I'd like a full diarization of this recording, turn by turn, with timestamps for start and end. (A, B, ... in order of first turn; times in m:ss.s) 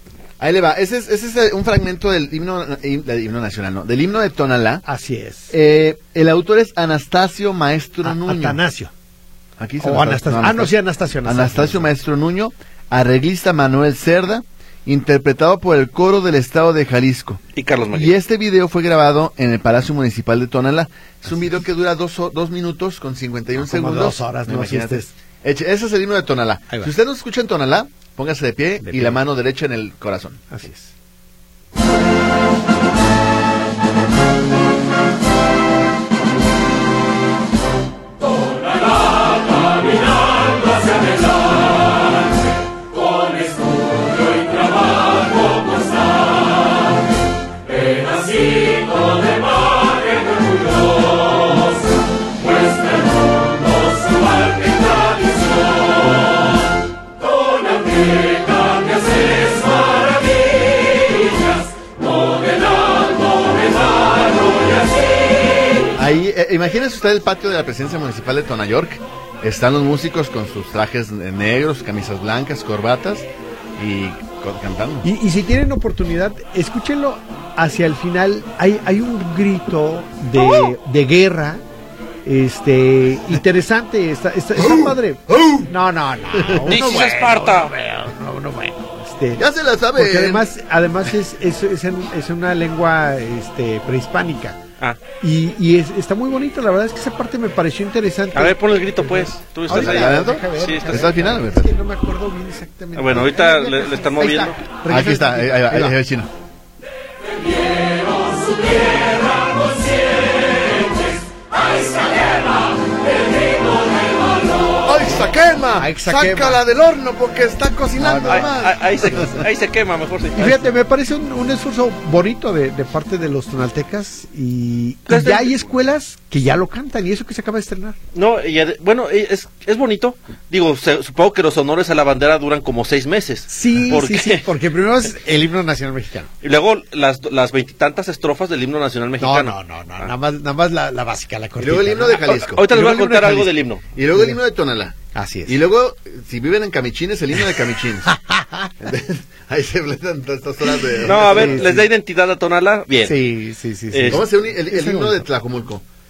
0:00.4-0:04.8 A
0:04.8-0:05.5 B
0:05.5-0:08.6 A
0:08.0-0:08.9 B
0:09.6-0:30.4 A
0:09.8-0:11.9 B
0:17.5-0:18.1 C
0:23.6-0:25.1 B
0:28.8-0:29.2 B
0:30.5-0:30.9 B
1:05.9-1:15.1 A
1:15.0-1:21.6 B
1:22.2-1:34.6 B
1:24.6-1:25.7 A
1:26.4-1:26.8 A
1:26.6-1:27.7 C
1:29.4-1:30.5 A
1:35.2-1:46.0 B
1:38.3-1:41.1 C
1:39.7-1:41.7 A
1:43.0-1:44.6 C
1:44.9-1:46.3 A
1:54.8-1:59.5 A
1:55.8-1:56.6 B
1:58.0-1:58.5 B
1:58.3-2:00.6 C
2:00.3-2:08.0 B
2:05.1-2:05.7 C
2:08.1-2:14.5 C
2:13.5-2:16.3 B
2:16.4-2:20.1 C
2:19.2-2:24.4 B
2:21.6-2:22.6 A
2:22.2-2:23.8 C
2:23.9-2:25.0 A
2:25.1-2:25.6 B
2:25.5-2:28.1 A
2:28.0-2:28.7 B
2:28.8-2:31.8 A
2:30.8-2:31.8 B
2:31.0-2:33.2 C
2:33.0-2:35.2 B
2:33.9-2:34.2 C
2:34.1-2:35.8 A